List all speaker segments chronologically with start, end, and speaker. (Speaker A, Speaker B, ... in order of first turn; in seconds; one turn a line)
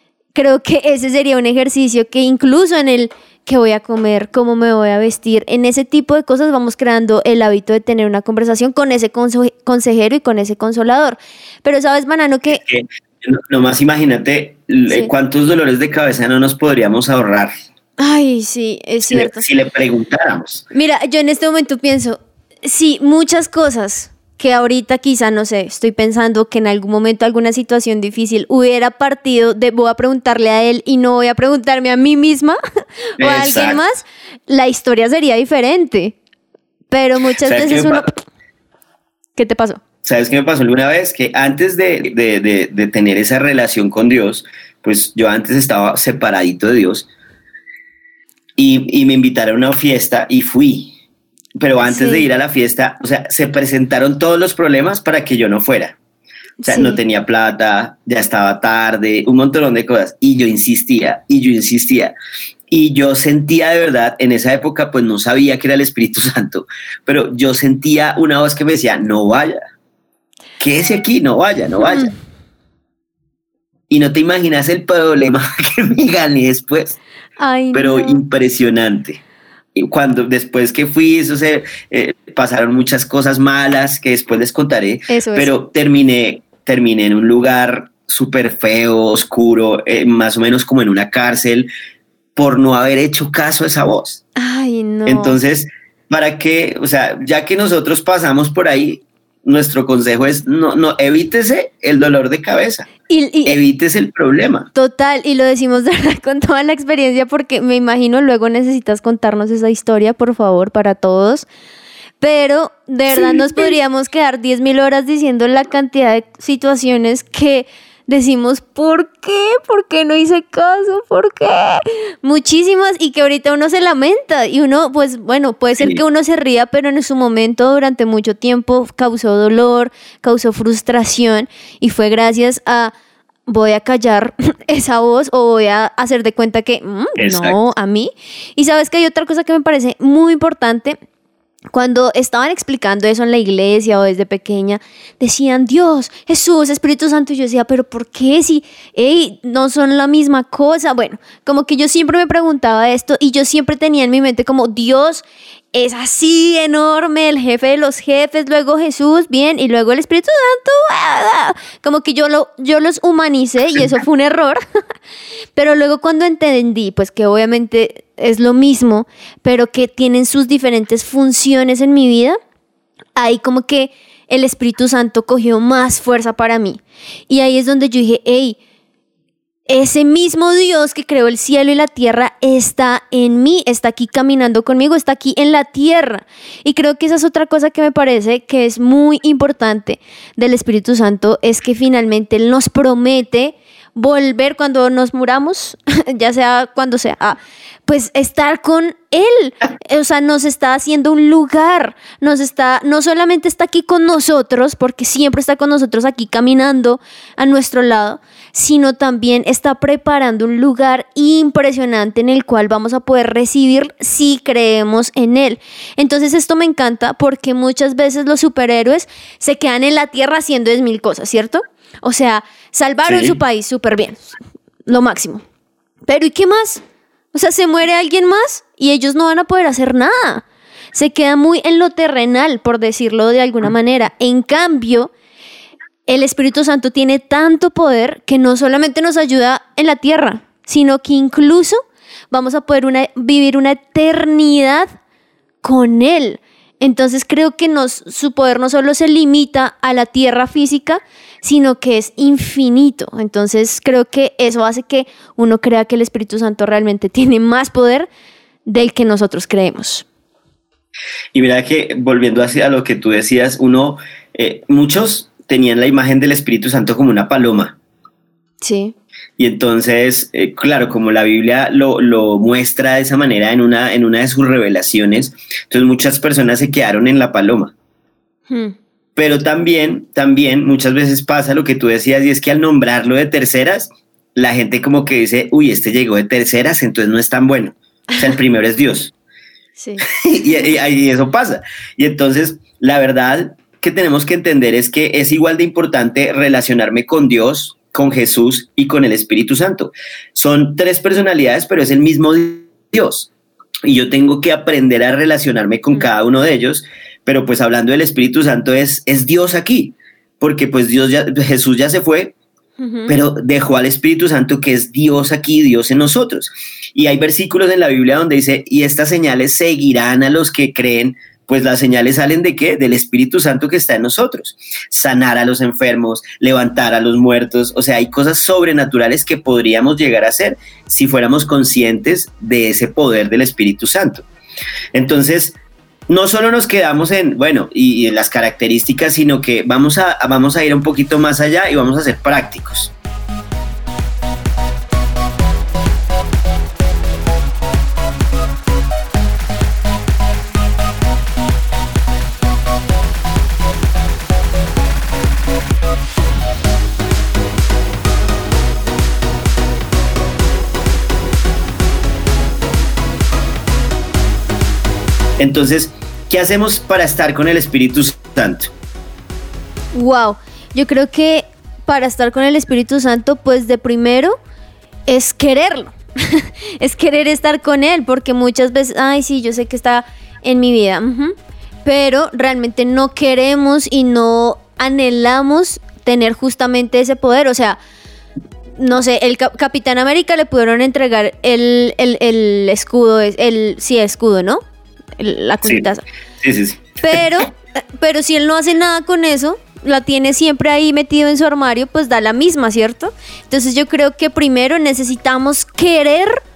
Speaker A: 0.3-12.6
Speaker B: 12.5-17.5
Speaker A: 18.0-19.4
Speaker B: 19.1-20.6
Speaker A: 20.7-32.6
Speaker A: 33.2-36.1
Speaker B: 33.2-33.8
Speaker A: 36.9-38.2
Speaker B: 37.4-38.1
Speaker A: 39.4-39.8
Speaker B: 40.0-47.1
Speaker B: 48.6-50.9
Speaker B: 51.6-56.0
Speaker A: 51.8-52.2
Speaker A: 56.6-57.0
Speaker B: 56.7-62.1
Speaker B: 62.7-69.6
Speaker B: 70.6-72.1
Speaker B: 73.9-77.0
Speaker A: 77.4-78.2
Speaker B: 77.7-79.2
Speaker B: 79.7-91.7
Speaker A: 85.1-85.5
Speaker B: 92.3-94.2
Speaker A: 94.3-95.4
Speaker B: 95.0-102.9
Speaker A: 103.1-103.6
Speaker B: 103.4-104.7
Speaker A: 104.7-111.5
Speaker A: 112.2-132.9
Speaker B: 113.1-113.7
Speaker B: 125.8-126.0
Speaker A: 133.5-141.0
Speaker B: 137.2-137.6
Speaker A: 141.7-164.6
Speaker A: 165.6-172.4
Speaker A: 173.2-178.6
Speaker A: 179.7-225.4
Speaker B: 223.1-223.4
Speaker A: 226.1-226.8
Speaker A: 227.3-235.1
Speaker A: 236.1-241.8
Speaker A: 242.3-244.9
Speaker A: 245.6-258.1
Speaker A: 258.6-260.0
Speaker B: 261.3-267.8
Speaker A: 268.6-268.9
Speaker B: 269.4-277.7
Speaker A: 278.5-278.7
Speaker B: 279.1-289.1
Speaker A: 289.8-290.0
Speaker B: 290.1-303.3
Speaker B: 303.8-312.3
Speaker A: 312.8-313.1
Speaker B: 313.1-334.3
Speaker B: 334.9-335.6
Speaker B: 336.1-342.9
Speaker B: 365.4-368.7
Speaker A: 369.9-374.4
Speaker A: 375.1-387.8
Speaker A: 388.8-394.6
Speaker A: 395.2-396.0
Speaker B: 396.4-397.2
Speaker A: 397.0-406.4